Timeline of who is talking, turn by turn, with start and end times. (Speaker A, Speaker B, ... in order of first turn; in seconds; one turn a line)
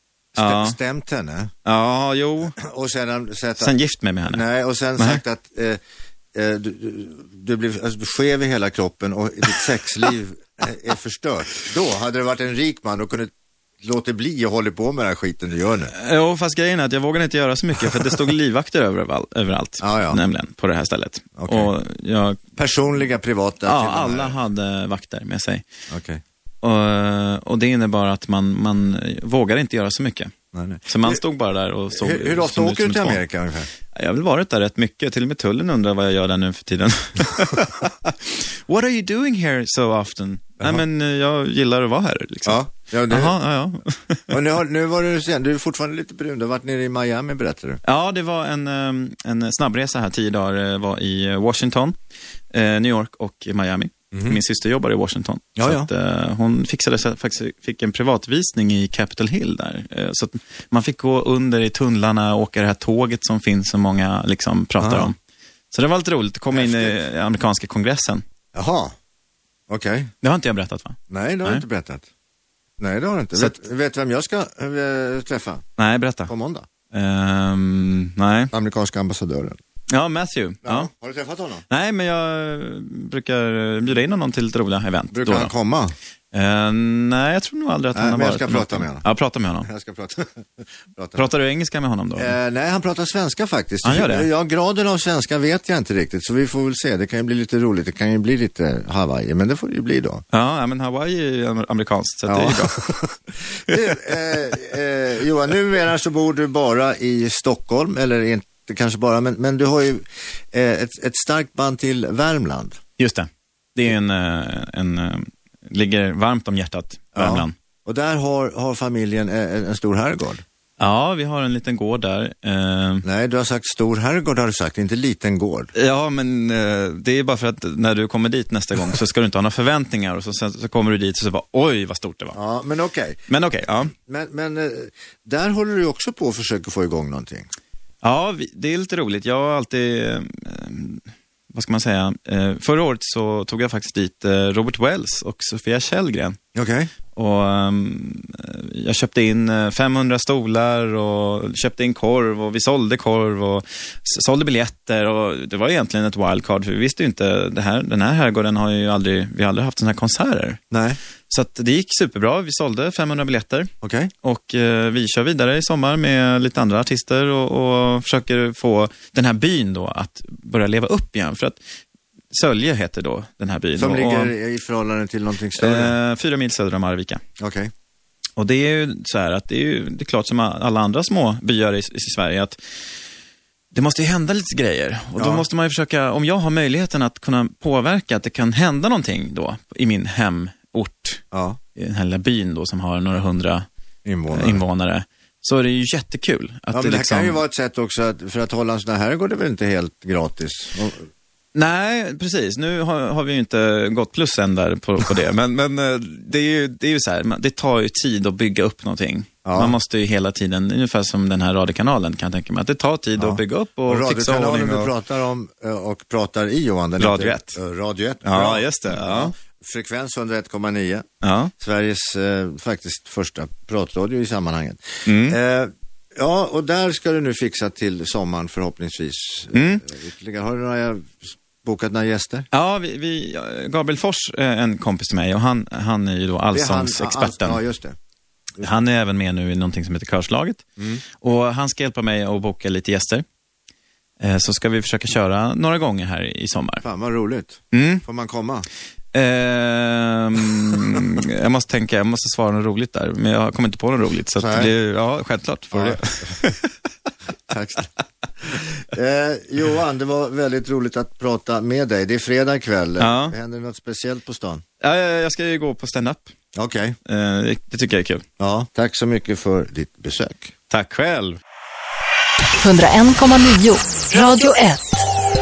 Speaker A: 0.3-0.8
Speaker B: 0.3-1.5
Speaker A: 1.6-2.6
Speaker B: 2.5-3.7
Speaker A: 3.6-4.4
Speaker B: 4.3-5.8
Speaker A: 5.0-5.2
Speaker B: 6.3-15.9
Speaker A: 15.9-22.4
Speaker B: 19.8-20.2
Speaker B: 21.4-21.7
Speaker B: 22.6-24.4
Speaker A: 23.6-25.6
Speaker B: 25.9-26.2
Speaker A: 26.6-30.3
Speaker B: 30.5-31.2
Speaker A: 30.9-33.2
Speaker B: 31.9-33.7
Speaker A: 33.9-44.4
Speaker B: 42.5-43.3
Speaker B: 44.3-47.8
Speaker A: 47.8-52.0
Speaker A: 52.5-65.2
Speaker B: 54.1-54.4
Speaker B: 55.6-55.9
Speaker B: 64.8-65.1
Speaker A: 65.7-68.2
Speaker B: 66.5-67.0
Speaker B: 68.5-68.9
Speaker B: 69.7-70.1
Speaker A: 70.2-71.6
Speaker B: 71.1-72.1
Speaker B: 72.8-75.6
Speaker A: 75.8-76.3
Speaker B: 76.3-76.7
Speaker A: 76.9-78.5
Speaker B: 78.5-79.6
Speaker A: 79.9-80.9
Speaker B: 80.6-81.6
Speaker A: 81.7-85.5
Speaker B: 85.1-85.9
Speaker A: 86.3-89.7
Speaker B: 87.9-89.0
Speaker B: 89.6-91.2
Speaker A: 91.2-92.3
Speaker B: 92.2-100.2
Speaker A: 93.8-94.3
Speaker A: 100.3-102.9
Speaker B: 102.3-112.8
Speaker A: 113.0-117.5
Speaker B: 117.1-120.4
Speaker A: 120.8-123.0
Speaker B: 123.0-125.7
Speaker A: 125.7-132.4
Speaker B: 132.3-133.2
Speaker A: 133.3-133.9
Speaker B: 133.9-137.5
Speaker A: 138.0-146.4
Speaker B: 146.5-146.9
Speaker A: 147.1-160.6
Speaker B: 160.7-161.0
Speaker A: 161.3-163.7
Speaker B: 163.8-164.1
Speaker A: 164.2-171.6
Speaker A: 172.3-174.3
Speaker B: 173.8-175.9
Speaker A: 175.6-177.2
Speaker B: 177.4-177.7
Speaker A: 178.4-182.6
Speaker A: 183.7-191.2
Speaker B: 185.2-185.5
Speaker B: 191.3-191.6
Speaker A: 191.8-193.7
Speaker B: 194.0-194.6
Speaker A: 194.3-197.4
Speaker B: 196.7-201.1
Speaker A: 201.5-214.9
Speaker B: 209.4-209.8
Speaker B: 213.2-221.1
Speaker A: 217.0-217.6
Speaker A: 218.2-219.3
Speaker A: 221.2-221.5
Speaker B: 221.6-232.5
Speaker A: 225.1-225.4
Speaker A: 229.5-229.8
Speaker A: 232.5-237.6
Speaker B: 236.5-237.9
Speaker A: 238.6-243.2
Speaker A: 244.2-246.8
Speaker B: 246.8-248.7
Speaker A: 247.7-248.0
Speaker A: 249.1-256.7
Speaker B: 254.4-254.7
Speaker B: 255.7-256.4
Speaker B: 257.5-257.9
Speaker B: 258.4-264.6
Speaker A: 263.0-263.3
Speaker A: 264.8-266.3
Speaker B: 266.5-267.0
Speaker A: 267.1-268.2
Speaker B: 268.4-270.5
Speaker A: 270.7-271.4
Speaker C: 272.6-275.0